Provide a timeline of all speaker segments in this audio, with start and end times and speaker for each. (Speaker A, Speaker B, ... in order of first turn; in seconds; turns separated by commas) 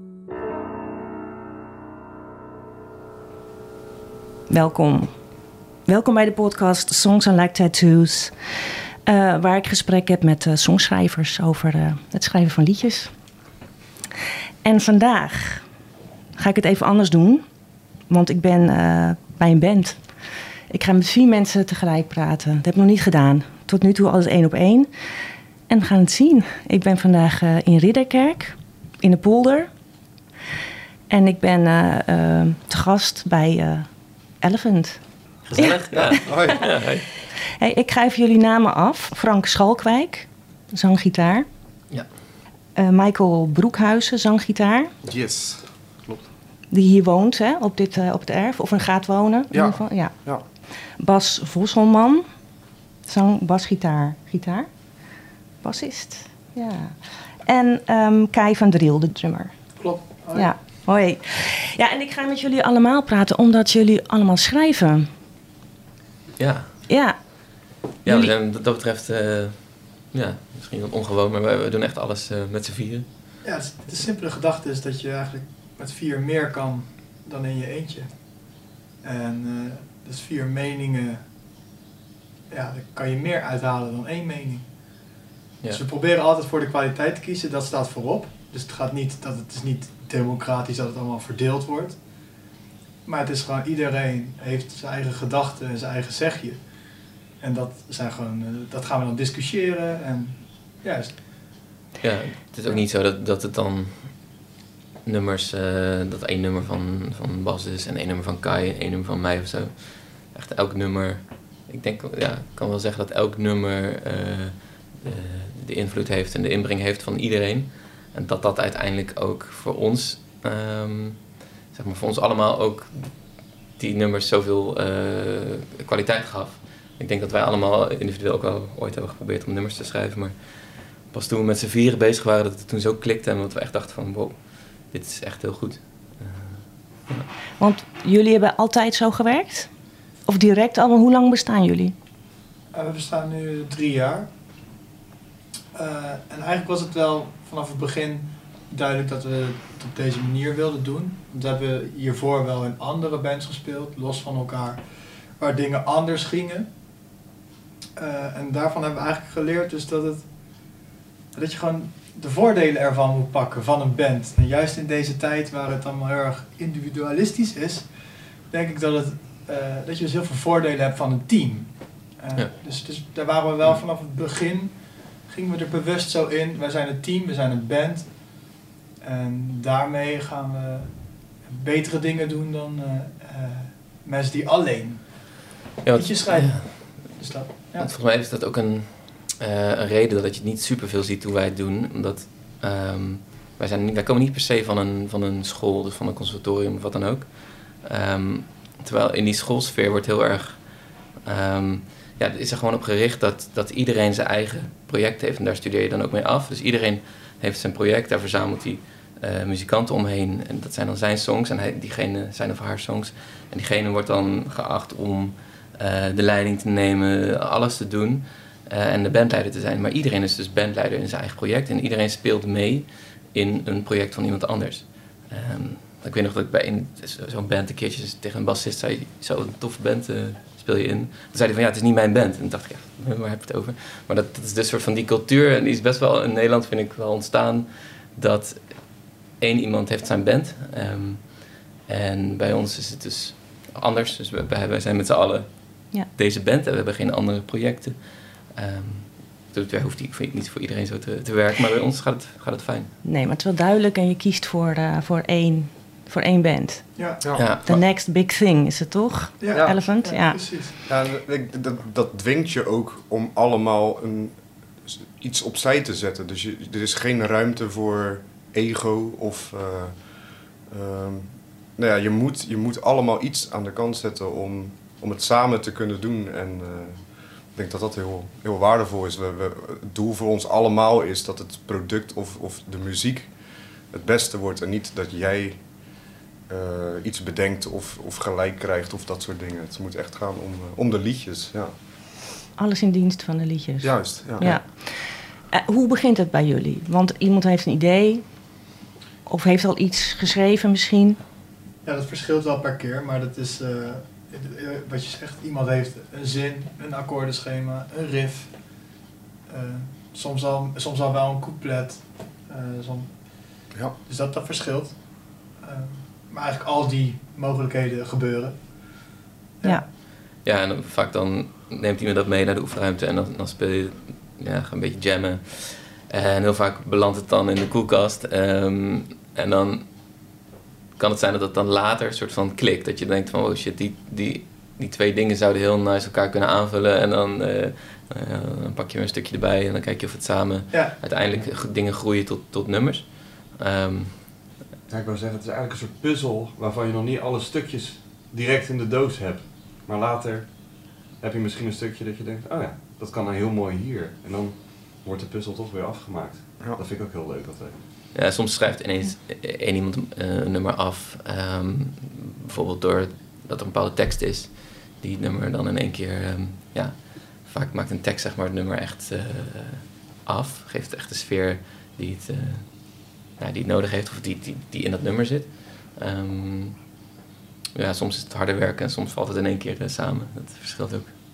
Speaker A: 4.5-5.1, Speaker A: 5.8-13.2, Speaker A: 14.6-15.8, Speaker A: 16.3-30.0, Speaker A: 31.1-36.9, Speaker B: 35.5-37.1, Speaker C: 35.9-36.8, Speaker A: 37.6-41.5, Speaker A: 42.7-44.9, Speaker C: 45.0-46.3, Speaker A: 46.7-65.1, Speaker C: 49.5-50.4, Speaker D: 59.8-60.8, Speaker B: 66.4-66.8, Speaker A: 66.9-68.3, Speaker B: 68.0-73.1, Speaker D: 73.4-81.3, Speaker D: 82.5-85.1, Speaker D: 85.7-92.5, Speaker D: 93.0-101.1, Speaker B: 102.0-104.5, Speaker B: 105.0-137.3, Speaker A: 137.6-141.9, Speaker D: 142.7-144.3, Speaker D: 145.7-156.8, Speaker D: 157.9-160.8, Speaker D: 161.3-187.9, Speaker B: 185.8-252.9, Speaker A: 253.0-260.7, Speaker D: 257.0-257.2, Speaker C: 257.2-257.5, Speaker B: 257.4-257.8, Speaker D: 259.4-260.7, Speaker C: 259.5-260.0, Speaker C: 260.9-291.8, Speaker A: 292.6-298.7, Speaker C: 293.8-294.5, Speaker A: 299.2-301.2, Speaker D: 301.8-318.7, Speaker B: 320.4-330.3, Speaker B: 331.0-344.4, Speaker D: 340.7-341.0, Speaker E: 344.9-357.8, Speaker B: 358.1-377.0, Speaker B: 377.8-381.1